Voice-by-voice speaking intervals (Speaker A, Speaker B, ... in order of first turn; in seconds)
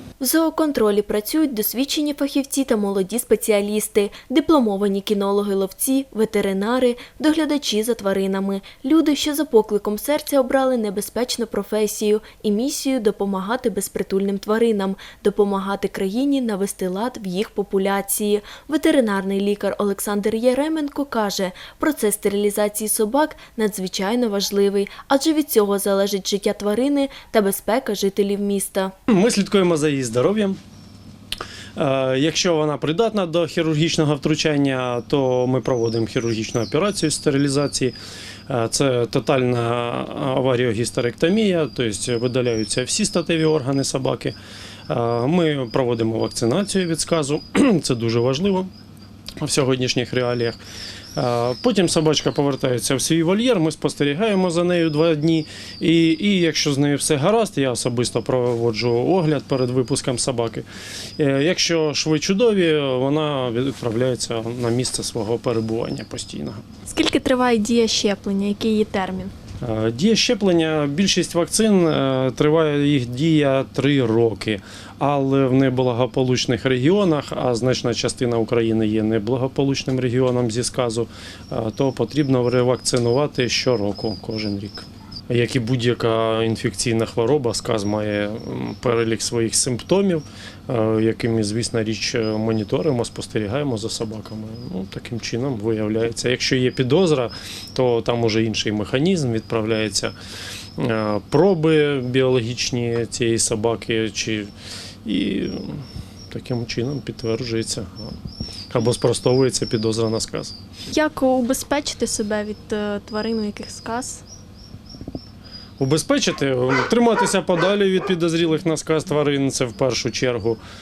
Speaker A: 0.2-28.9
Speaker B: 29.1-30.6, 31.8-38.0, 38.5-44.4, 44.9-48.7, 49.4-50.6, 51.1-60.6, 61.2-66.6, 69.6-100.1, 100.8-104.5, 105.0-108.2, 108.7-110.5, 115.8-120.6
Speaker C: 66.9-69.3, 110.9-114.2